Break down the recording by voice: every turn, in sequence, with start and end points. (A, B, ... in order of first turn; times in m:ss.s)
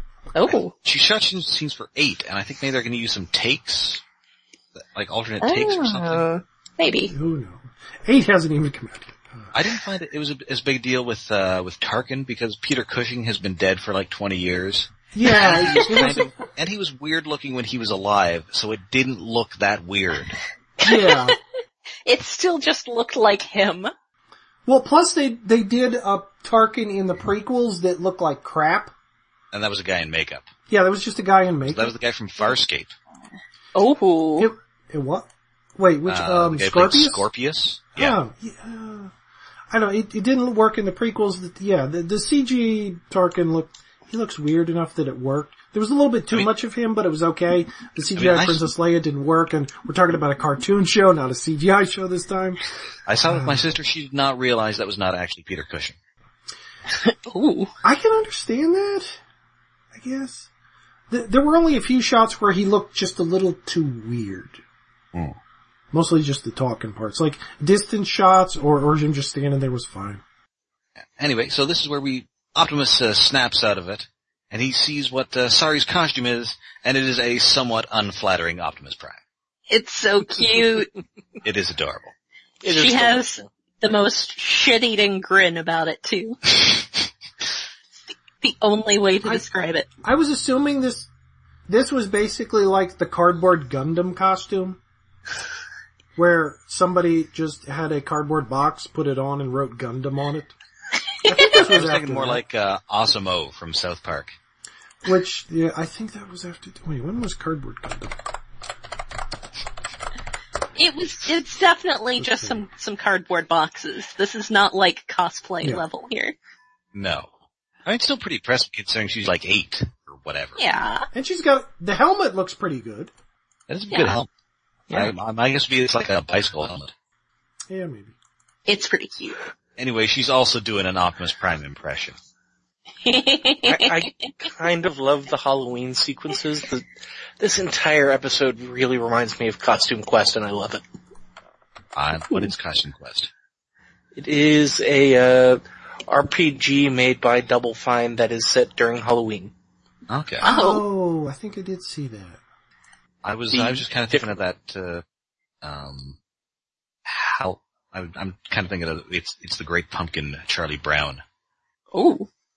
0:00.3-0:00.7 A
0:00.4-0:04.0 B
0:04.8-0:06.2 B
0:05.4-0:07.1 A
0:07.1-0:09.5 C
0:09.5-0:20.4 B
0:15.1-0:16.3 C
0:20.8-0:21.4 A
0:20.8-0:21.4 C
0:22.0-0:23.9 A
0:24.6-0:28.9 C
0:29.5-0:30.4 B
0:30.7-0:31.9 C
0:31.7-0:32.9 B
0:33.7-0:34.5 A
0:34.4-0:37.2 C
0:36.0-0:38.2 B
0:38.0-0:39.1 C
0:39.7-0:52.6 C
0:48.1-0:48.7 B
0:53.0-0:56.0 B
0:53.3-0:53.7 C
0:57.0-0:57.7 A
0:57.8-0:59.2 C
0:59.9-1:00.5 C
1:01.1-1:04.6 C
1:05.9-1:10.2 C
1:11.0-1:19.2 B
1:19.7-1:20.9 A
1:21.4-1:22.1 B
1:22.6-1:23.5 D
1:22.7-1:26.8 A
1:28.4-1:29.8 A
1:30.0-1:31.1 C
1:31.7-1:34.8 C
1:36.2-1:40.5 C
1:41.2-1:42.4 C
1:41.4-1:44.3 B
1:45.0-1:48.2 C
1:50.8-1:56.3 A
1:52.2-1:52.6 C
1:56.9-1:57.3 B
1:57.8-2:00.6 B
2:00.6-2:01.1 A
2:01.1-2:03.1 C
2:03.7-2:04.3 B
2:03.9-2:04.2 A
2:04.9-2:06.9 B
2:07.7-2:08.1 C
2:08.7-2:09.4 A
2:09.8-2:12.2 B
2:13.0-2:14.1 A
2:13.6-2:16.9 D
2:17.4-2:20.8 D
2:21.9-2:23.3 B
2:24.2-2:29.5 D
2:30.1-2:30.5 B
2:30.4-2:30.8 A
2:30.4-2:32.4 C
2:33.2-2:35.0 B
2:33.5-2:34.4 D
2:35.6-2:36.2 B
2:37.0-2:41.2 B
2:41.9-2:42.3 A